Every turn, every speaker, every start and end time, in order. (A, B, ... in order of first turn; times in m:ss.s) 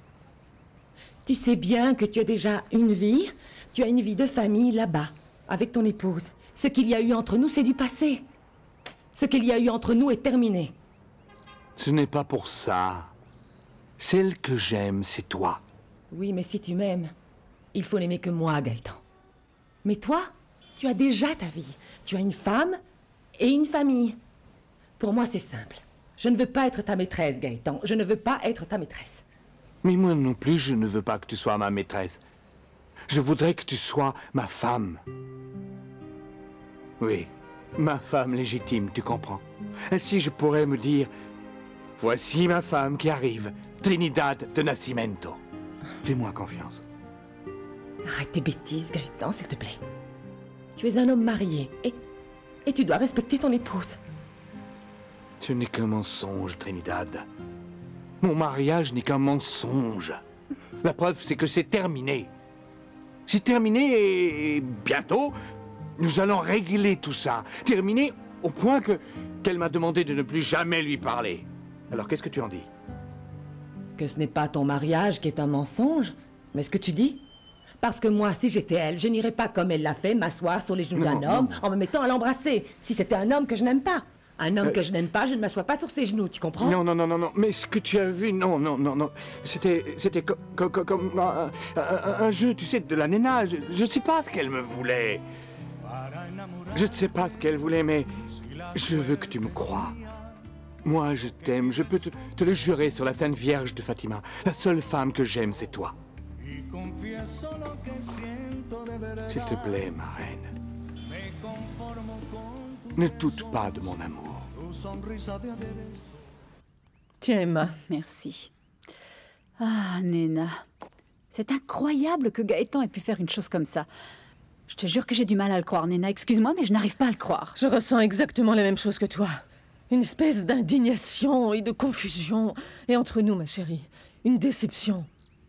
0:01.2-0:08.2 A
0:09.1-0:10.7 A
0:11.8-0:13.1 B
0:14.0-0:15.6 B
0:16.1-0:17.1 A
0:17.7-0:19.0 A
0:19.8-0:22.8 A
0:23.4-0:24.2 A
0:25.0-0:29.2 A
0:29.8-0:32.2 B
0:33.1-0:35.0 B
0:37.0-0:41.1 B
0:42.0-0:45.4 B
0:46.0-0:46.8 B
0:48.0-0:49.8 A
0:50.8-0:52.0 A
0:52.6-0:54.0 A
0:55.4-0:57.2 B
0:58.2-1:00.2 B
1:00.8-1:02.3 B
1:03.3-1:05.3 B
1:06.0-1:12.7 B
1:14.0-1:17.2 A
1:17.8-1:26.8 A
1:21.0-1:21.6 B
1:26.6-1:35.2 B
1:36.7-1:38.1 B
1:38.7-1:40.0 B
1:40.8-1:46.0 B
1:49.2-1:50.5 B
1:52.9-1:54.5 B
1:57.2-1:57.7 C
1:57.8-1:58.5 D
1:59.6-2:00.6 D
2:01.3-2:03.9 D
2:04.7-2:07.6 D
2:07.6-2:15.1 C